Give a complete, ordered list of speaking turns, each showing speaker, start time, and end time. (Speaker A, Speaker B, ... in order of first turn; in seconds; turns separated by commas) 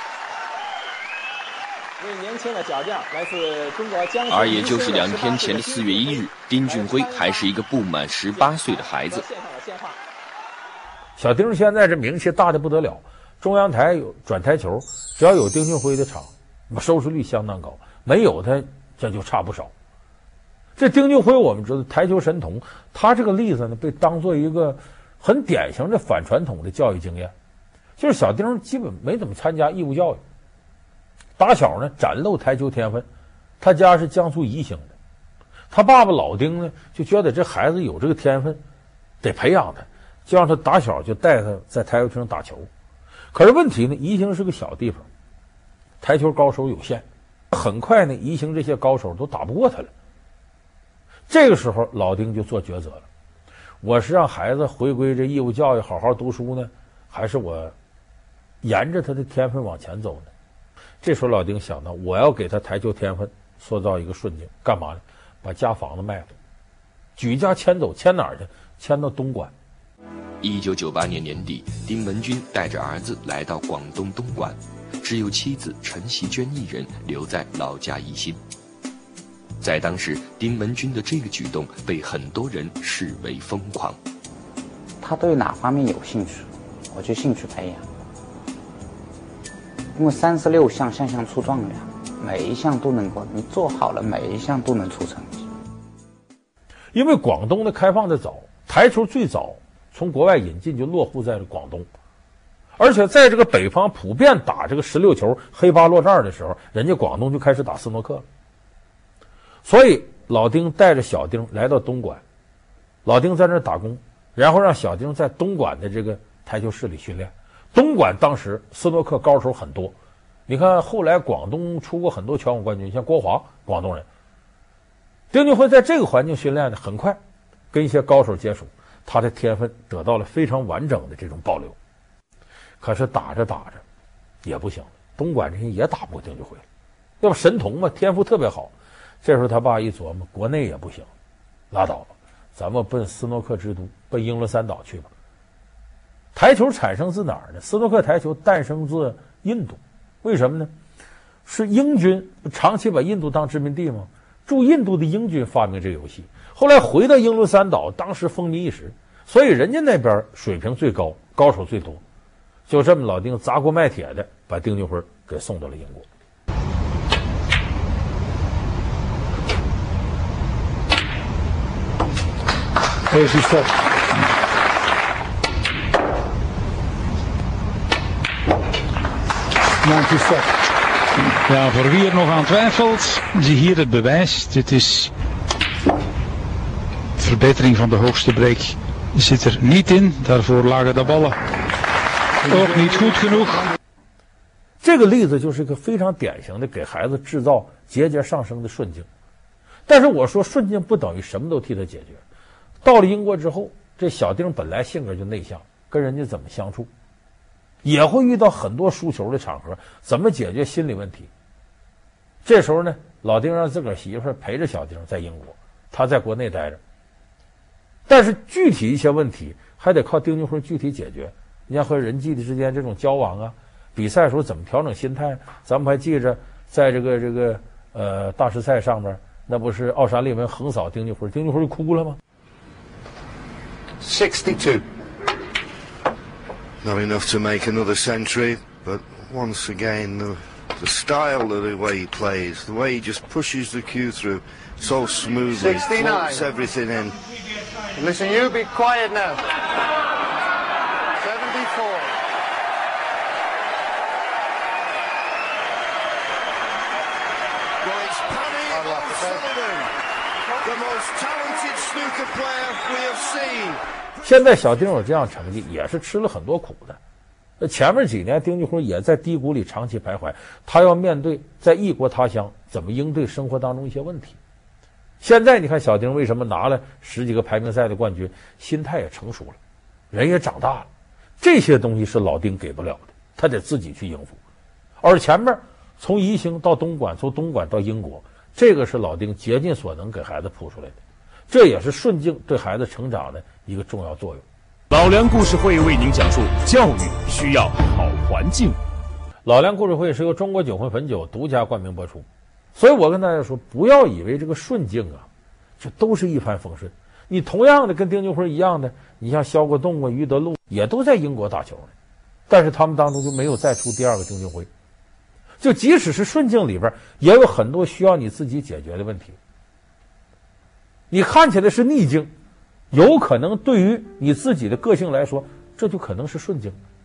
Speaker A: 2.0-7.5, Speaker B: 4.3-9.2, Speaker A: 8.3-10.0, Speaker C: 11.2-19.7, Speaker C: 20.8-27.3, Speaker C: 28.0-30.2, Speaker C: 31.4-33.1, Speaker C: 33.6-34.9, Speaker C: 35.7-38.6, Speaker C: 39.2-42.7, Speaker C: 43.3-45.1, Speaker C: 46.0-49.9, Speaker C: 51.3-53.1, Speaker C: 53.8-57.8, Speaker C: 58.6-60.3, Speaker C: 61.0-66.3, Speaker C: 67.2-69.5, Speaker B: 70.4-78.4, Speaker B: 79.6-84.0, Speaker D: 85.0-87.9, Speaker D: 90.0-95.5, Speaker C: 96.9-101.9, Speaker C: 102.8-108.2, Speaker C: 109.7-112.2, Speaker C: 113.0-119.9, Speaker C: 120.5-124.1, Speaker C: 125.3-127.2, Speaker C: 127.7-131.8, Speaker C: 132.8-133.8, Speaker C: 134.4-136.7, Speaker C: 137.2-141.1, Speaker C: 141.7-145.1, Speaker C: 146.3-150.7, Speaker C: 151.4-162.0, Speaker C: 162.7-166.1, Speaker E: 173.1-173.7, Speaker E: 179.8-180.4, Speaker E: 181.4-185.1, Speaker E: 187.2-191.4, Speaker E: 192.4-193.7, Speaker C: 194.8-199.1, Speaker C: 199.9-202.2, Speaker C: 202.8-206.9, Speaker C: 207.8-211.3, Speaker C: 212.4-216.8, Speaker C: 218.1-232.2, Speaker F: 234.0-234.8, Speaker F: 236.8-247.2, Speaker G: 245.5-246.5, Speaker G: 248.0-249.4, Speaker G: 251.2-252.1, Speaker F: 257.8-259.9, Speaker G: 258.7-259.5, Speaker F: 260.6-263.8, Speaker C: 264.2-267.0, Speaker C: 267.6-274.4, Speaker C: 275.2-279.6, Speaker C: 280.1-280.9, Speaker C: 281.4-284.4, Speaker C: 285.0-291.0, Speaker C: 291.5-294.4, Speaker H: 294.9-298.8, Speaker C: 299.4-305.3, Speaker C: 305.8-311.9, Speaker C: 312.5-314.7, Speaker C: 315.6-319.4, Speaker C: 321.1-322.3, Speaker C: 322.9-326.8